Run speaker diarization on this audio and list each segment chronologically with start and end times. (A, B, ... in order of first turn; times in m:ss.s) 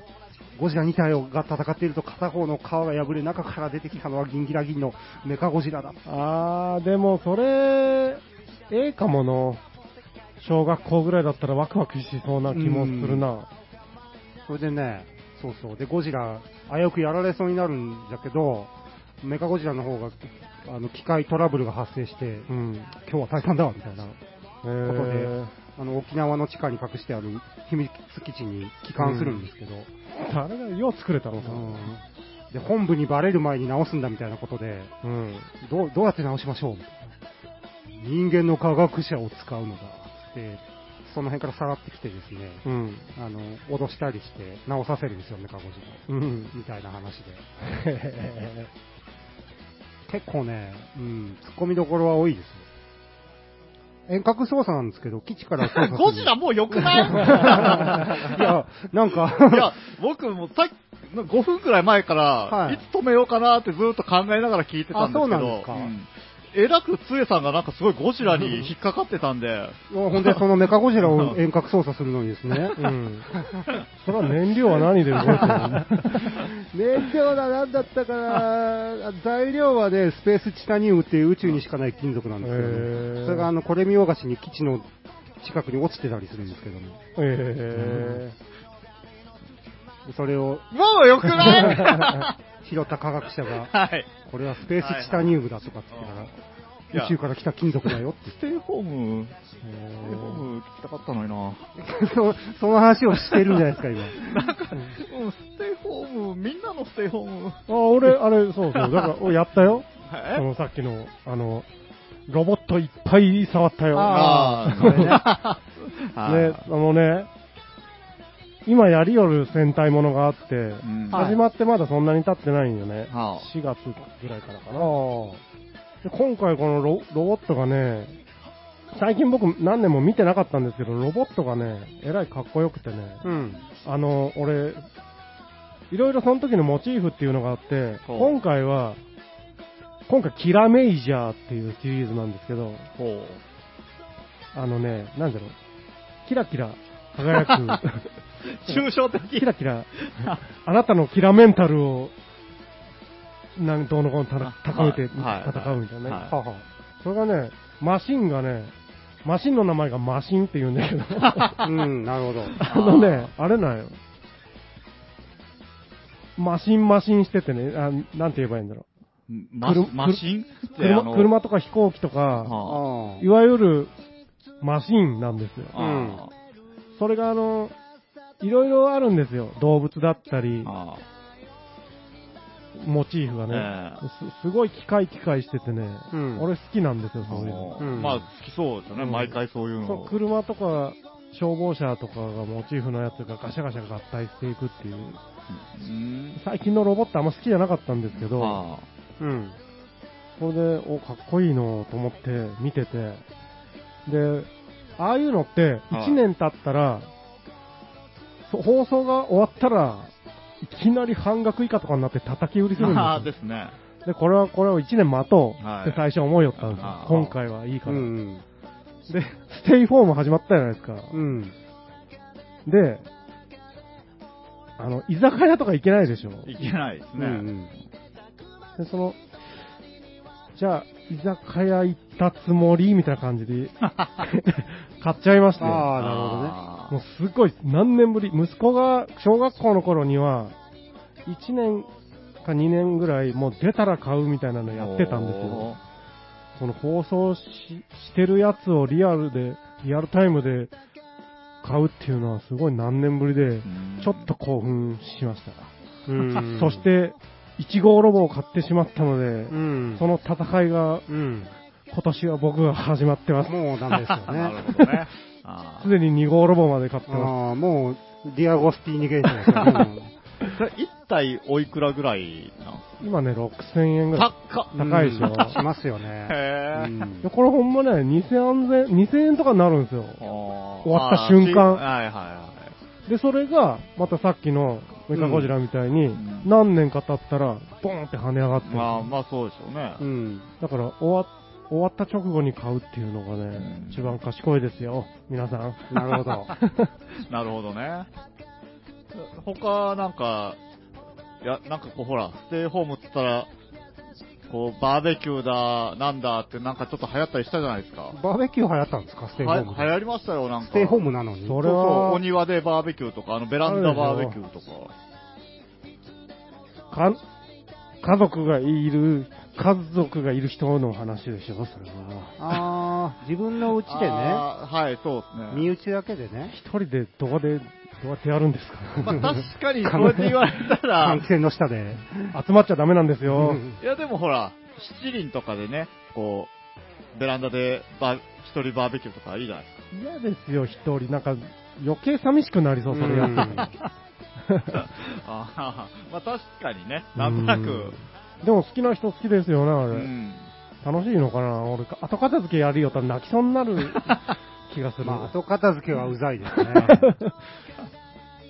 0:00.6-0:06.0 A
0:06.0-0:09.6 B
0:10.4-0:13.5 B
0:12.5-0:13.3 A
0:14.5-0:24.2 A
0:22.5-0:22.9 B
0:24.6-0:25.5 B
0:24.8-0:29.9 A
0:29.0-0:29.4 B
0:30.1-0:31.9 B
0:31.4-0:34.9 A
0:35.0-0:35.5 B
0:35.6-0:37.1 A
0:38.0-0:47.4 A
0:42.6-0:43.1 B
0:46.1-0:46.5 B
0:47.6-0:48.7 B
0:50.1-0:52.6 A
0:54.1-0:59.7 A
0:55.6-0:58.5 C
0:59.4-1:10.4 C
1:02.5-1:02.8 A
1:04.9-1:05.9 A
1:09.9-1:12.8 A
1:12.8-1:13.3 B
1:13.3-1:13.7 A
1:14.0-1:16.4 B
1:15.2-1:15.5 C
1:15.2-1:24.9 A
1:22.4-1:23.5 B
1:25.4-1:27.0 A
1:27.2-1:28.4 B
1:27.7-1:28.2 A
1:30.0-1:30.7 A
1:30.7-1:32.3 C
1:31.2-1:36.3 A
1:31.6-1:32.2 B
1:33.4-1:34.1 C
1:34.7-1:35.3 C
1:35.9-1:36.3 C
1:36.9-1:38.4 A
1:37.9-1:39.3 C
1:39.6-1:40.4 B
1:40.0-1:41.6 C
1:41.8-1:44.4 A
1:44.1-1:47.6 C
1:44.7-1:45.0 B
1:47.7-1:51.7 B
1:48.7-1:49.1 C
1:50.0-1:50.4 C
1:52.3-1:55.2 B
1:53.9-1:55.2 A
1:54.1-1:56.6 C
1:56.2-1:57.3 B
1:58.6-2:04.9 B
2:00.8-2:01.3 C
2:01.1-2:01.4 A
2:03.1-2:03.5 C
2:04.7-2:05.4 A
2:06.0-2:08.2 B
2:08.9-2:14.8 B
2:13.2-2:13.6 A
2:15.9-2:19.0 B
2:18.0-2:18.4 C
2:20.1-2:22.9 B
2:23.0-2:23.4 C
2:24.5-2:25.6 B
2:26.2-2:28.1 B
2:27.4-2:27.8 C
2:28.4-2:29.5 C
2:28.7-2:32.1 B
2:30.0-2:30.4 C
2:33.6-2:36.2 B
2:34.4-2:36.3 C
2:36.3-2:36.6 A
2:37.0-2:38.7 B
2:39.2-2:41.7 B
2:41.2-2:41.7 C
2:41.6-2:42.6 A
2:42.6-2:43.3 C
2:42.6-2:44.0 B
2:46.4-2:48.8 B
2:49.3-2:51.3 C
2:49.6-2:52.6 B
2:52.4-2:52.8 C
2:52.6-2:53.2 A
2:53.2-2:53.9 B
2:54.6-2:55.8 B
2:55.7-2:56.3 C
2:55.8-2:56.2 A
2:56.9-2:57.7 B
2:58.4-3:00.7 B
3:00.6-3:01.0 C
3:02.7-3:08.2 B
3:03.5-3:04.0 C
3:06.1-3:06.5 A
3:07.2-3:10.2 C
3:07.8-3:08.2 A
3:09.0-3:15.2 B
3:15.5-3:16.4 C
3:16.4-3:18.6 B
3:18.2-3:18.8 C
3:19.2-3:19.6 A
3:20.4-3:23.2 B
3:24.0-3:27.1 B
3:25.9-3:26.2 C
3:28.4-3:33.3 B
3:32.7-3:33.7 C
3:34.0-3:38.1 B
3:35.6-3:36.0 C
3:36.6-3:37.3 C
3:37.8-3:38.4 A
3:39.1-3:41.2 B
3:41.1-3:41.5 A
3:42.6-3:43.1 B
3:44.8-3:46.5 B
3:46.4-3:47.5 C
3:47.2-3:47.7 A
3:48.8-3:49.2 B
3:50.5-3:55.9 B
3:55.6-3:56.6 A
3:56.0-3:56.9 C
3:56.9-4:00.5 B
4:01.2-4:01.9 B
4:02.4-4:05.7 B
4:04.7-4:05.8 C
4:06.6-4:10.7 B
4:11.6-4:15.7 B
4:13.6-4:14.3 C
4:16.1-4:16.8 A
4:16.5-4:21.0 B
4:19.5-4:20.0 A
4:21.1-4:21.5 A
4:21.9-4:23.6 B
4:23.5-4:24.6 A
4:24.1-4:25.9 C
4:25.8-4:27.3 B
4:27.1-4:30.1 A
4:30.4-4:32.9 C
4:33.0-4:35.6 B
4:34.1-4:35.6 C
4:34.8-4:37.3 A
4:36.3-4:36.9 C
4:37.2-4:40.2 B
4:40.2-4:42.7 C
4:40.8-4:41.8 B
4:43.0-4:49.1 B
4:45.1-4:45.5 A
4:46.1-4:46.5 C
4:48.6-4:50.0 C
4:50.0-4:50.5 A
4:50.6-4:56.9 B
4:53.6-4:54.2 C
4:55.9-4:56.5 A
4:57.2-4:58.1 C
4:59.1-5:00.6 C
5:01.4-5:03.5 C
5:04.5-5:08.2 C
5:08.1-5:09.9 A
5:09.4-5:11.0 C
5:10.6-5:11.6 A
5:11.4-5:12.2 B
5:11.6-5:14.9 C
5:13.6-5:14.4 B
5:16.9-5:17.2 B
5:18.0-5:22.3 B
5:22.4-5:24.4 A
5:23.8-5:25.7 C
5:25.5-5:26.5 A
5:26.5-5:29.2 B
5:29.0-5:31.2 C
5:29.8-5:30.4 A
5:31.0-5:32.3 A
5:32.3-5:33.6 B
5:33.3-5:33.8 A
5:33.8-5:36.5 C
5:37.1-5:39.9 C
5:39.9-5:43.7 B
5:42.9-5:43.7 A
5:43.6-5:43.9 C
5:44.4-5:44.8 B
5:44.7-5:48.0 C
5:47.2-5:50.1 B
5:49.9-5:50.5 C
5:50.8-5:55.3 B
5:53.9-5:54.2 C
5:55.0-5:57.1 A
5:56.5-5:57.3 B